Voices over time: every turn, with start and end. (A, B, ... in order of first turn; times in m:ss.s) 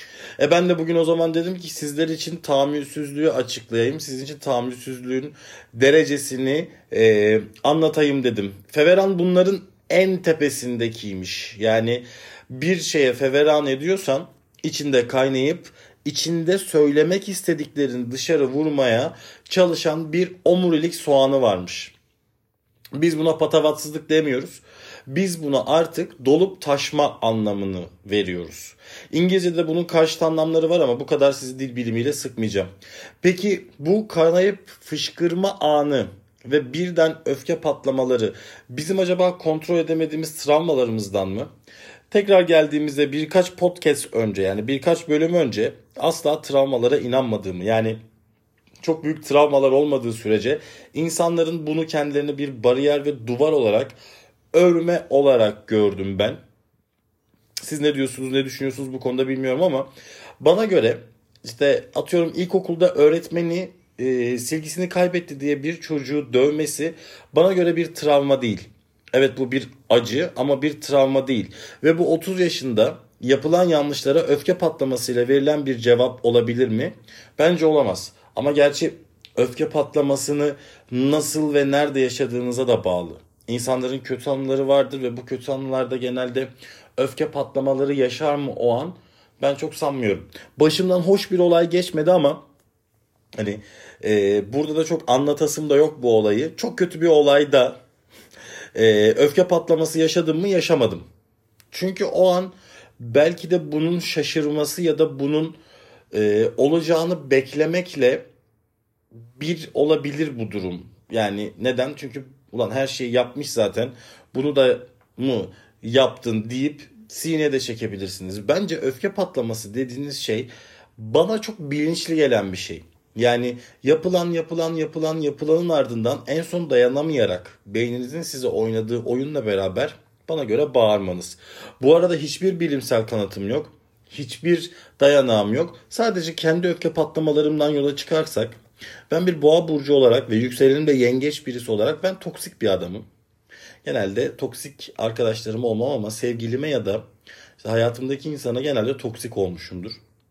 0:00.4-0:21.9 A
0:23.0-0:32.7 A
0:33.2-0:41.5 A
0:42.1-0:48.0 A
0:48.8-0:54.0 A
0:54.5-0:56.4 A
0:57.6-1:32.4 A
1:33.4-1:37.8 A
1:38.7-1:41.0 A
1:41.7-1:45.6 A
1:46.1-1:48.2 A
1:49.4-2:18.6 A
2:19.1-2:23.0 A
2:23.8-2:27.0 A
2:27.6-2:30.0 A